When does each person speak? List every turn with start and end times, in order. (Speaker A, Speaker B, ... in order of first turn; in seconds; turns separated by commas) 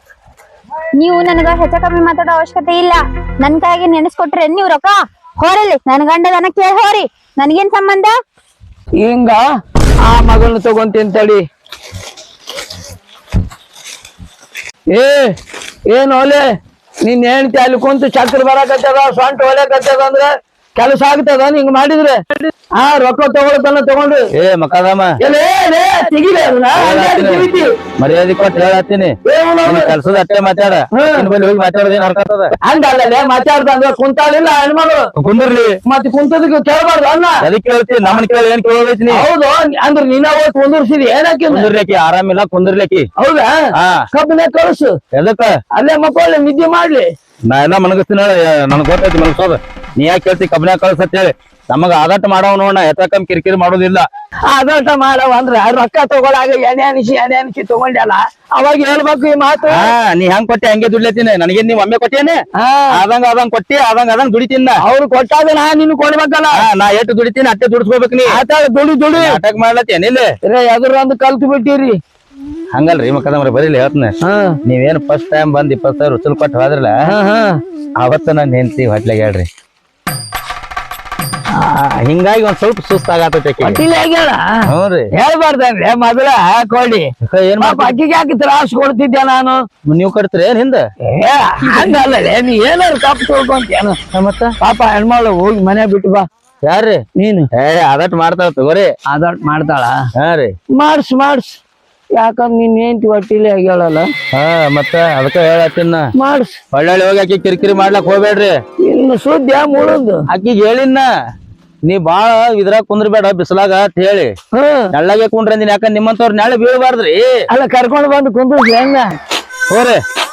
Speaker A: 1.0-8.2, Speaker B: 9.0-9.4, Speaker B: 10.0-11.4, Speaker B: 14.9-15.3, Speaker B: 15.9-16.4, Speaker B: 17.0-22.2, Speaker B: 22.7-24.3, Speaker C: 24.3-25.2, Speaker B: 25.2-27.7, Speaker C: 26.8-32.5, Speaker B: 29.2-30.0, Speaker B: 30.9-31.3, Speaker B: 32.6-35.1, Speaker C: 35.2-35.8, Speaker B: 35.9-37.5, Speaker C: 37.4-39.3, Speaker B: 39.1-41.7, Speaker C: 41.5-43.1, Speaker B: 43.2-43.5, Speaker C: 43.8-44.0, Speaker B: 44.1-45.0, Speaker C: 45.1-45.5, Speaker B: 45.7-47.1, Speaker C: 47.5-54.0, Speaker B: 54.5-59.9, Speaker C: 59.6-62.4, Speaker B: 62.6-63.0, Speaker C: 62.9-64.8, Speaker B: 64.8-66.7, Speaker C: 66.5-68.4, Speaker B: 68.3-69.4, Speaker C: 69.1-70.3, Speaker B: 70.4-72.0, Speaker C: 72.7-74.1, Speaker B: 74.2-74.6, Speaker C: 74.7-76.9, Speaker B: 77.1-77.6, Speaker C: 78.0-79.5, Speaker C: 81.6-83.8, Speaker B: 83.6-84.4, Speaker C: 84.7-85.1, Speaker B: 85.1-89.6, Speaker C: 87.2-88.0, Speaker C: 89.8-90.8, Speaker B: 91.1-94.0, Speaker C: 94.1-94.6, Speaker B: 94.6-96.2, Speaker C: 96.7-97.0, Speaker B: 97.2-97.5, Speaker C: 97.5-98.9, Speaker B: 99.1-100.0, Speaker C: 100.2-100.5, Speaker B: 100.8-101.6, Speaker B: 102.2-104.1, Speaker C: 104.3-106.1, Speaker B: 106.2-106.6, Speaker C: 106.7-108.5, Speaker B: 108.8-110.2, Speaker C: 110.3-111.1, Speaker C: 111.9-114.3, Speaker B: 114.5-114.9, Speaker C: 114.9-117.3, Speaker B: 117.5-119.2, Speaker C: 119.7-120.0